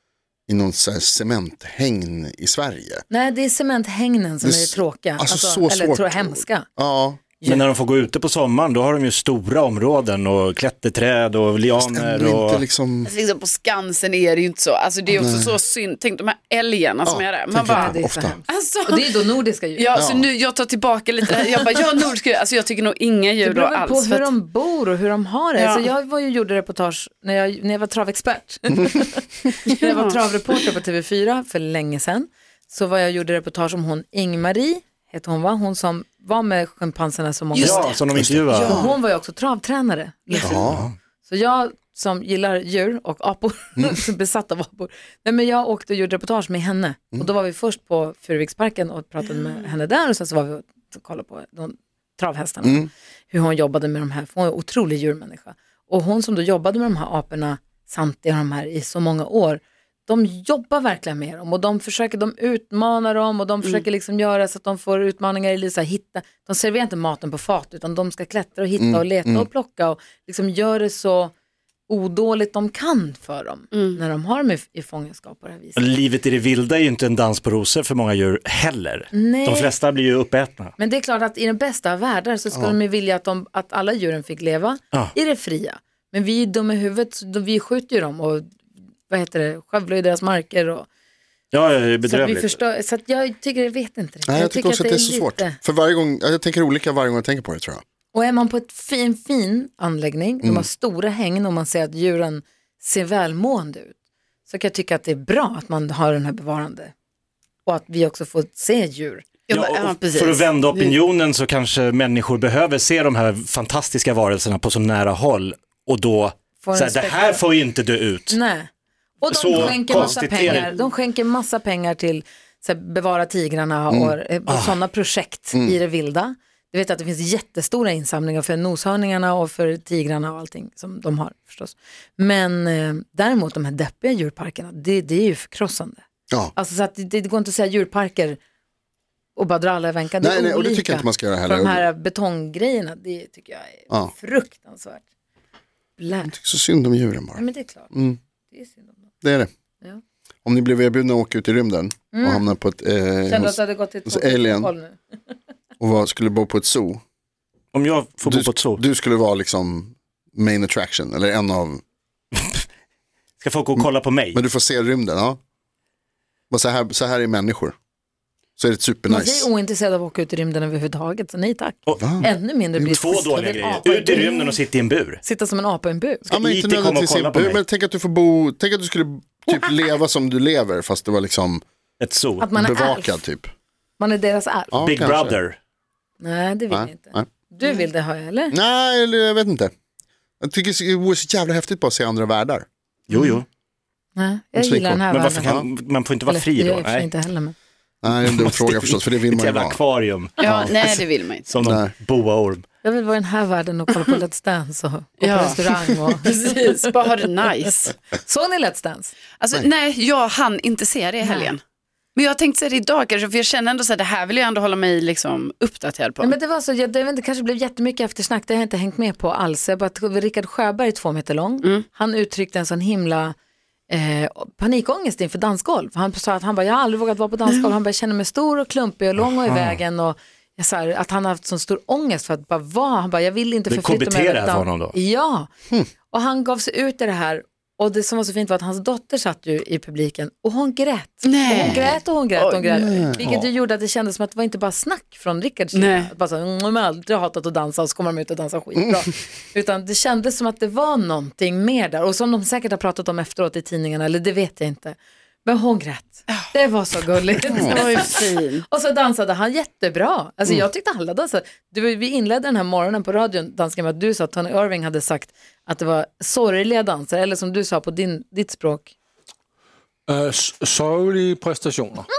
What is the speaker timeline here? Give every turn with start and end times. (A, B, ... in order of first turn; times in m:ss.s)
0:00.5-0:03.0 A
0:03.1-0:06.7 B
0:04.4-0:07.2 A
0:07.4-0:07.7 B
0:07.4-0:12.6 C
0:11.8-0:13.1 A
0:13.0-0:19.2 D
0:15.1-0:15.5 A
0:17.0-0:18.4 A
0:17.7-0:20.0 B
0:19.8-0:24.3 D
0:19.9-0:20.3 A
0:23.4-0:38.0 B
0:25.6-0:25.9 D
0:29.8-0:30.3 D
0:37.5-0:39.0 D
0:37.6-0:38.8 C
0:38.1-0:38.8 A
0:38.5-0:40.7 B
0:40.4-0:40.9 A
0:40.4-0:41.0 C
0:41.2-1:11.3 B
0:52.6-0:52.9 A
1:08.8-1:09.5 A
1:11.9-1:15.8 B
1:13.7-1:14.0 D
1:15.8-1:20.7 C
1:19.1-1:19.7 B
1:20.8-1:28.5 B
1:29.1-1:30.9 B
1:31.5-1:32.6 C
1:32.0-1:35.6 B
1:34.3-1:37.8 A
1:38.1-1:44.0 B
1:44.5-1:46.9 B
1:47.6-1:49.2 B
1:49.5-1:51.0 D
1:49.5-1:58.4 C
1:56.6-1:57.4 B
1:58.3-1:58.7 B
1:59.2-2:16.0 B
1:59.3-2:00.7 C
1:59.6-2:00.6 A
2:03.9-2:04.2 A
2:04.5-2:04.8 C
2:16.6-2:18.4 B
2:19.4-2:25.0 B
2:20.2-2:21.9 A
2:26.0-2:26.3 B
2:26.2-2:28.2 A
2:27.4-2:27.9 B
2:28.5-2:29.1 B
2:29.2-2:29.5 A
2:30.4-2:34.7 A
2:32.1-2:32.5 B
2:33.2-2:35.0 B
2:35.8-2:37.0 A
2:37.7-2:38.8 C
2:38.2-2:41.8 A
2:43.4-2:44.4 C
2:43.8-2:45.4 A
2:46.5-2:47.8 A
2:48.6-2:49.5 A
2:49.1-2:54.6 B
2:51.9-2:52.2 C
2:52.0-2:52.3 A
2:52.8-2:55.2 C
2:55.2-2:56.3 B
2:56.3-2:57.6 C
2:56.3-3:01.6 A
2:59.5-2:59.7 B
3:02.0-3:02.5 C
3:02.4-3:03.2 B
3:02.6-3:03.5 A
3:04.0-3:04.7 B
3:04.7-3:05.4 A
3:04.8-3:05.6 C
3:06.2-3:08.6 B
3:06.7-3:07.3 A
3:08.5-3:09.7 A
3:10.4-3:12.7 A
3:13.1-3:13.5 C
3:14.2-3:15.6 B
3:14.6-3:15.7 A
3:15.1-3:17.1 C
3:16.3-3:17.5 B
3:18.0-3:19.8 A
3:18.3-3:20.4 C
3:20.4-3:21.5 D
3:20.4-3:21.0 A
3:21.5-3:22.6 C
3:21.6-3:21.9 A
3:22.8-3:26.9 B
3:25.2-3:28.0 D
3:28.1-3:29.1 B
3:29.4-3:31.6 D
3:31.2-3:31.5 B
3:32.2-3:36.3 D
3:36.2-3:43.4 B
3:43.9-3:55.5 B
3:49.2-3:49.8 C
3:53.7-3:55.0 C
3:56.1-4:18.1 B
4:01.2-4:03.1 D
4:01.5-4:02.0 A
4:02.7-4:03.2 A
4:05.7-4:06.1 D
4:17.5-4:18.6 D
4:17.5-4:17.9 A
4:18.6-4:28.9 B
4:30.1-4:32.1 E